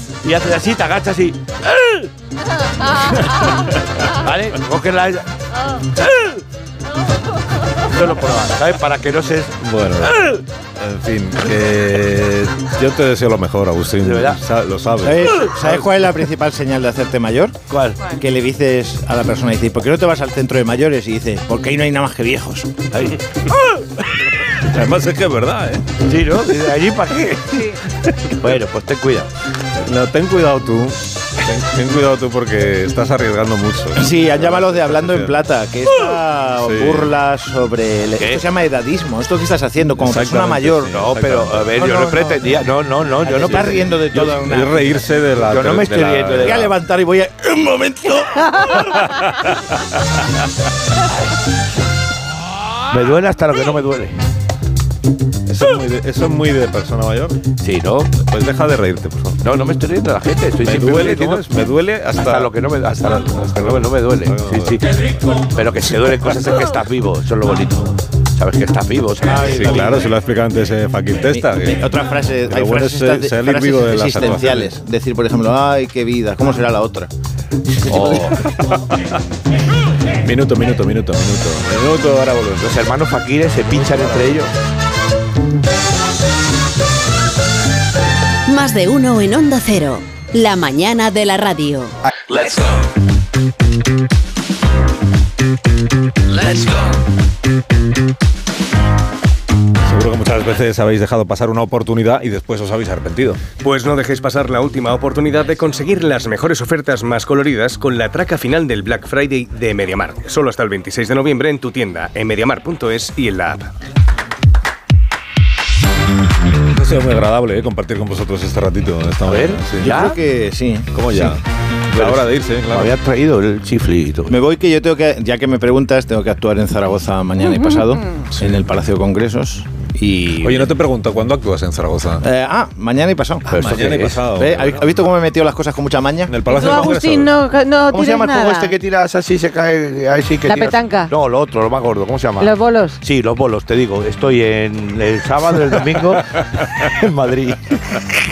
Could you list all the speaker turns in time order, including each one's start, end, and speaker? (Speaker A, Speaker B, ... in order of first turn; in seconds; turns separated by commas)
Speaker A: 0.2-2.1, Speaker A: 4.1-5.2, Speaker A: 7.8-10.4, Speaker B: 9.6-15.3, Speaker A: 14.0-14.4, Speaker C: 15.0-17.6, Speaker A: 15.4-15.8, Speaker A: 17.7-18.0, Speaker C: 18.1-22.8, Speaker A: 22.9-23.2, Speaker B: 24.6-25.9, Speaker A: 26.0-27.8, Speaker D: 27.5-27.8, Speaker B: 28.1-28.3, Speaker A: 28.3-29.3, Speaker B: 29.8-35.4, Speaker C: 33.9-41.1, Speaker B: 36.6-37.1, Speaker A: 38.2-38.4, Speaker B: 40.0-41.7, Speaker A: 40.9-43.9, Speaker C: 41.8-42.6, Speaker C: 43.2-45.0, Speaker B: 43.4-46.7, Speaker A: 45.4-46.7, Speaker C: 46.4-48.2, Speaker A: 47.9-48.8, Speaker B: 48.8-49.5, Speaker A: 52.9-54.2, Speaker B: 55.5-57.4, Speaker A: 57.6-58.1, Speaker B: 58.1-59.4, Speaker A: 59.4-61.5, Speaker B: 60.6-62.5, Speaker A: 62.2-64.8, Speaker B: 63.0-64.8, Speaker A: 65.4-69.4, Speaker C: 69.2-70.2, Speaker B: 69.4-71.9, Speaker C: 71.3-77.1, Speaker B: 72.5-74.7, Speaker A: 77.8-78.3, Speaker B: 77.9-79.2, Speaker B: 80.2-82.9, Speaker A: 82.6-84.5, Speaker B: 83.7-84.3, Speaker E: 88.5-92.0, Speaker B: 99.8-103.4, Speaker F: 103.6-113.7, Speaker B: 116.7-120.1, Speaker A: 119.2-120.2, Speaker C: 119.8-120.9, Speaker B: 120.9-122.9, Speaker A: 121.9-124.4, Speaker C: 124.3-130.7, Speaker B: 130.4-132.2, Speaker C: 132.2-136.4, Speaker A: 133.5-134.2, Speaker B: 133.6-135.1, Speaker B: 136.3-137.3, Speaker D: 136.5-138.7, Speaker A: 137.9-148.1, Speaker D: 140.4-141.1, Speaker D: 142.4-143.0